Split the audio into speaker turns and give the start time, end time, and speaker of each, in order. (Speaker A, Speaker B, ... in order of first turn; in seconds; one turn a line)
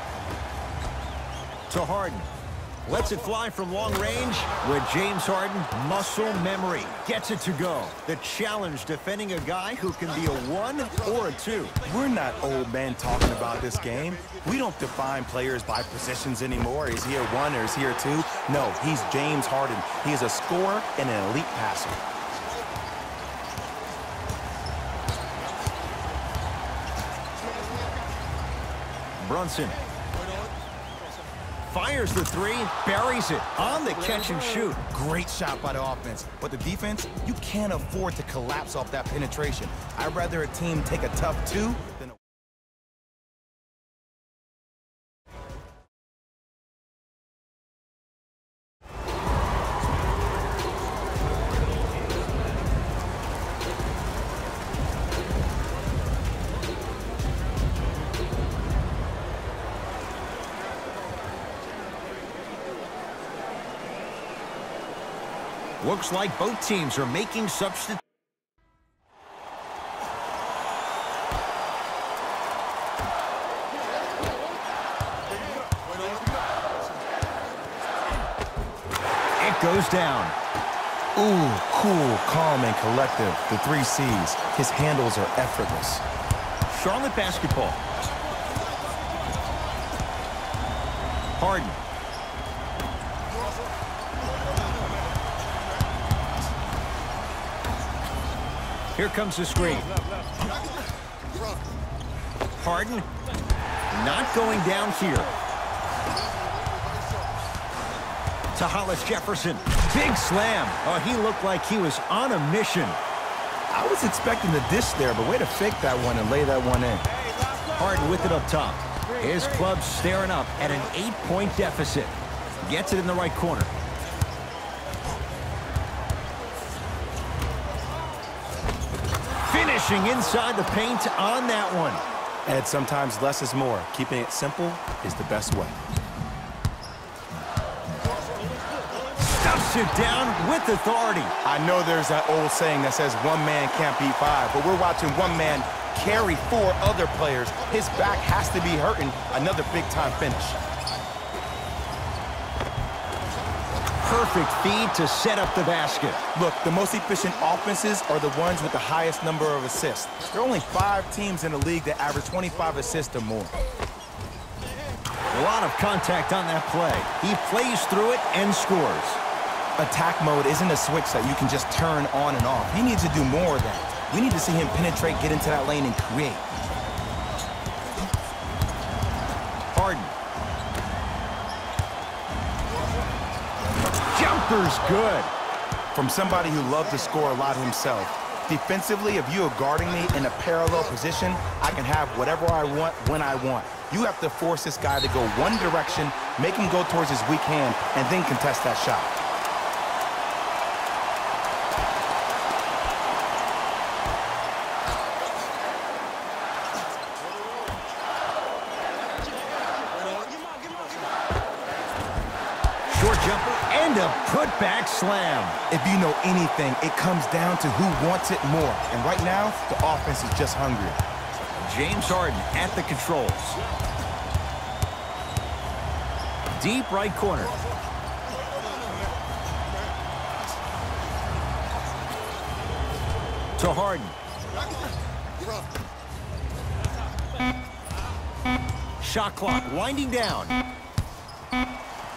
Speaker A: 1.7-2.3
Speaker A: 2.9-11.8
Speaker B: 11.8-22.0
Speaker A: 29.2-29.8
Speaker A: 31.6-34.8
Speaker B: 34.9-42.1
Speaker A: 65.8-68.0
Speaker A: 79.4-80.4
Speaker B: 81.2-86.0
Speaker A: 86.7-87.8
Speaker A: 91.4-91.8
Speaker A: 99.0-99.9
Speaker A: 102.6-103.1
Speaker A: 103.9-105.3
Speaker A: 108.5-113.0
Speaker B: 113.7-117.1
Speaker A: 117.6-123.7
Speaker A: 129.5-132.1
Speaker B: 132.5-135.8
Speaker A: 139.1-141.3
Speaker B: 141.4-150.6
Speaker A: 154.0-156.2
Speaker B: 156.3-163.5
Speaker A: 165.3-169.2
Speaker B: 169.8-176.5
Speaker A: 179.7-180.2
Speaker A: 184.0-185.3
Speaker B: 185.9-199.1
Speaker A: 212.9-215.6
Speaker B: 215.7-221.0
Speaker A: 221.6-223.6
Speaker A: 226.6-227.5
Speaker A: 233.6-234.2
Speaker A: 239.0-240.6